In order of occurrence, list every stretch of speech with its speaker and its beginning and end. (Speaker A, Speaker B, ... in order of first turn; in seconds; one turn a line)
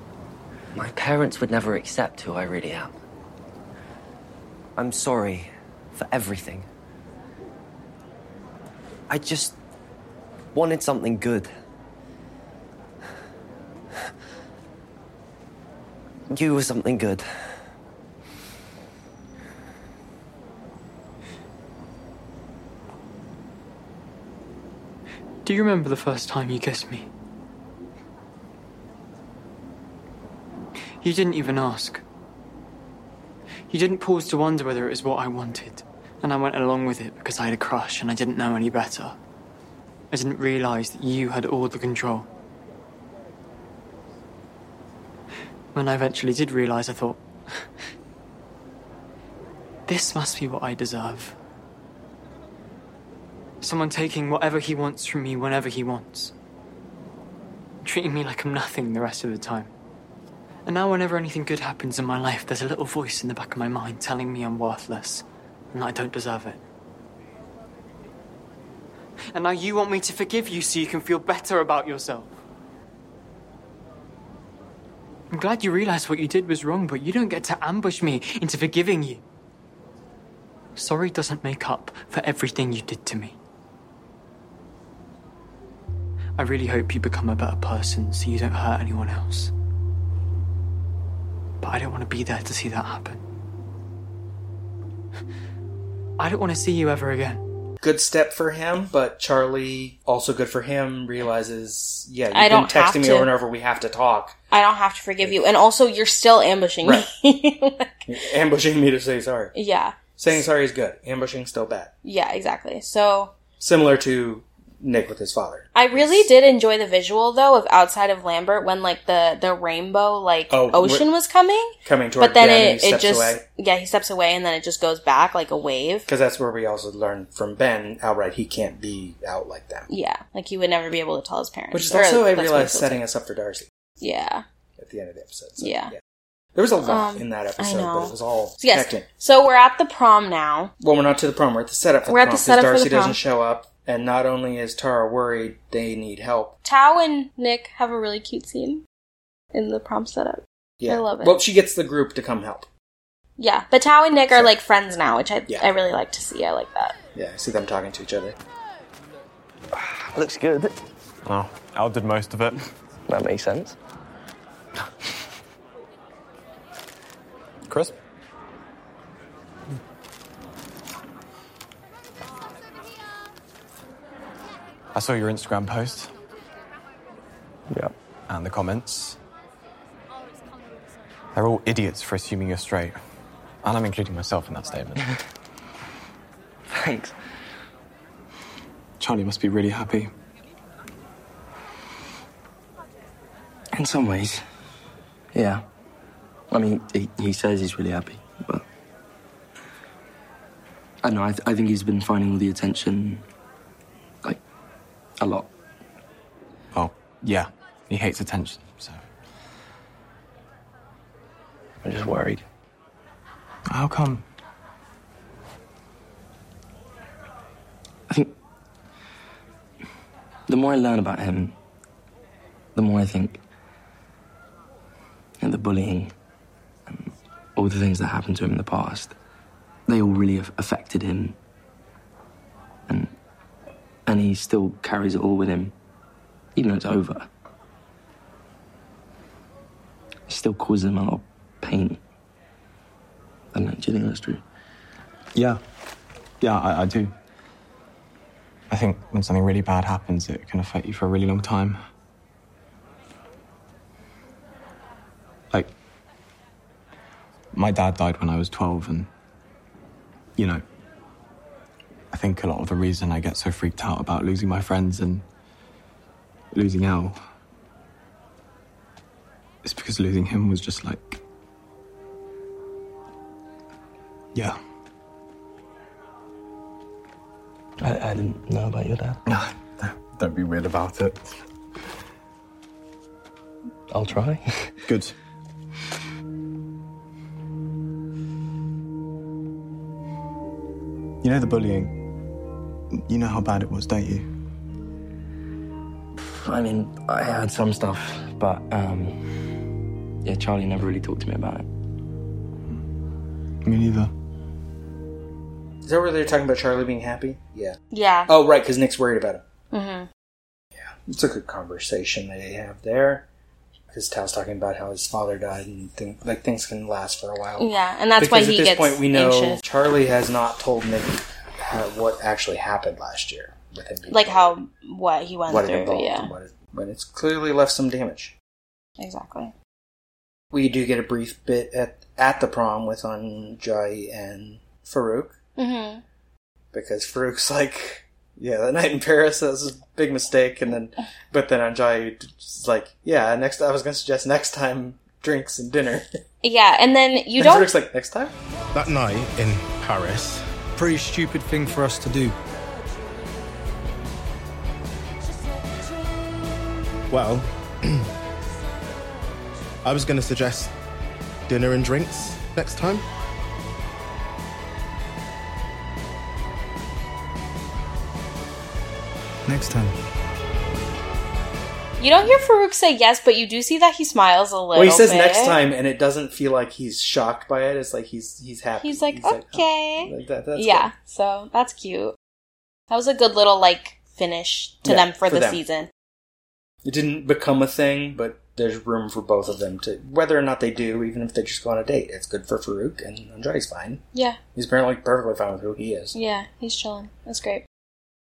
Speaker A: 0.7-3.0
Speaker A: 4.8-6.7
Speaker A: 9.1-9.6
Speaker A: 10.5-11.5
Speaker A: 16.3-17.6
Speaker B: 25.4-27.1
Speaker B: 31.0-32.0
Speaker B: 33.7-39.2
Speaker B: 40.1-42.3
Speaker B: 45.7-47.2
Speaker B: 49.9-51.4
Speaker B: 53.6-56.3
Speaker B: 57.8-59.7
Speaker B: 60.6-66.6
Speaker B: 69.3-72.3
Speaker B: 75.3-79.2
Speaker B: 80.8-83.3
Speaker B: 86.4-89.5
Speaker B: 91.6-93.2
Speaker B: 96.2-97.4
Speaker C: 97.8-104.3
Speaker D: 102.3-103.3
Speaker D: 104.5-108.0
Speaker C: 106.8-107.1
Speaker C: 108.1-109.5
Speaker D: 109.5-110.4
Speaker C: 110.2-111.9
Speaker D: 112.0-113.3
Speaker C: 113.6-116.3
Speaker D: 115.7-126.1
Speaker C: 120.5-121.1
Speaker C: 121.8-123.4
Speaker C: 126.1-129.9
Speaker D: 129.9-133.0
Speaker C: 131.7-133.7
Speaker D: 134.0-134.4
Speaker C: 134.8-136.0
Speaker D: 135.6-135.9
Speaker C: 136.5-139.0
Speaker D: 136.8-140.7
Speaker C: 140.8-146.6
Speaker D: 142.1-143.2
Speaker D: 146.6-148.8
Speaker D: 149.5-151.4
Speaker C: 150.8-152.7
Speaker D: 153.4-156.9
Speaker C: 157.1-158.3
Speaker E: 160.2-160.7
Speaker F: 161.2-162.6
Speaker E: 163.1-163.7
Speaker F: 167.7-167.9
Speaker F: 174.9-176.1
Speaker F: 178.3-179.2
Speaker F: 181.3-183.0
Speaker F: 183.6-185.0
Speaker E: 186.7-187.1
Speaker F: 189.0-190.1
Speaker E: 193.7-194.4
Speaker E: 195.3-195.6
Speaker E: 196.5-198.6
Speaker E: 201.0-203.2
Speaker E: 205.2-205.5
Speaker F: 206.7-209.0
Speaker E: 211.8-212.4
Speaker F: 213.7-214.2
Speaker E: 220.5-221.5
Speaker E: 222.7-223.4
Speaker E: 225.4-226.1
Speaker E: 226.9-229.1
Speaker E: 229.9-231.3
Speaker E: 232.9-233.1
Speaker E: 234.1-235.7
Speaker E: 236.6-237.3
Speaker E: 240.3-242.0
Speaker E: 243.5-244.4
Speaker F: 245.3-245.6
Speaker F: 246.4-247.1
Speaker F: 248.7-251.8
Speaker F: 257.5-259.1
Speaker F: 260.4-260.6
Speaker F: 262.1-265.2
Speaker F: 266.5-267.2
Speaker F: 269.6-271.2
Speaker E: 277.8-279.2
Speaker F: 279.3-281.3
Speaker E: 283.9-284.7
Speaker F: 284.9-285.1
Speaker F: 291.2-291.9
Speaker F: 293.1-294.2
Speaker E: 296.2-299.2
Speaker E: 300.2-301.6
Speaker F: 303.6-304.1
Speaker C: 305.8-307.8
Speaker D: 307.9-308.3
Speaker C: 308.3-309.4
Speaker D: 309.7-310.1
Speaker C: 310.8-313.2
Speaker C: 313.9-317.7
Speaker D: 317.6-319.6
Speaker C: 318.2-324.5
Speaker D: 324.1-326.3
Speaker C: 325.5-328.3
Speaker D: 329.0-329.5
Speaker C: 330.5-335.4
Speaker D: 335.6-336.0
Speaker C: 336.7-346.1
Speaker D: 346.4-347.7
Speaker C: 347.4-348.3
Speaker G: 348.7-352.4
Speaker G: 357.1-358.1
Speaker G: 359.8-360.7
Speaker G: 361.5-363.0
Speaker D: 372.0-375.6
Speaker C: 374.7-380.9
Speaker D: 378.8-382.1
Speaker D: 382.9-385.9
Speaker C: 384.8-385.6
Speaker C: 386.8-394.0
Speaker C: 394.5-396.1
Speaker D: 396.1-397.6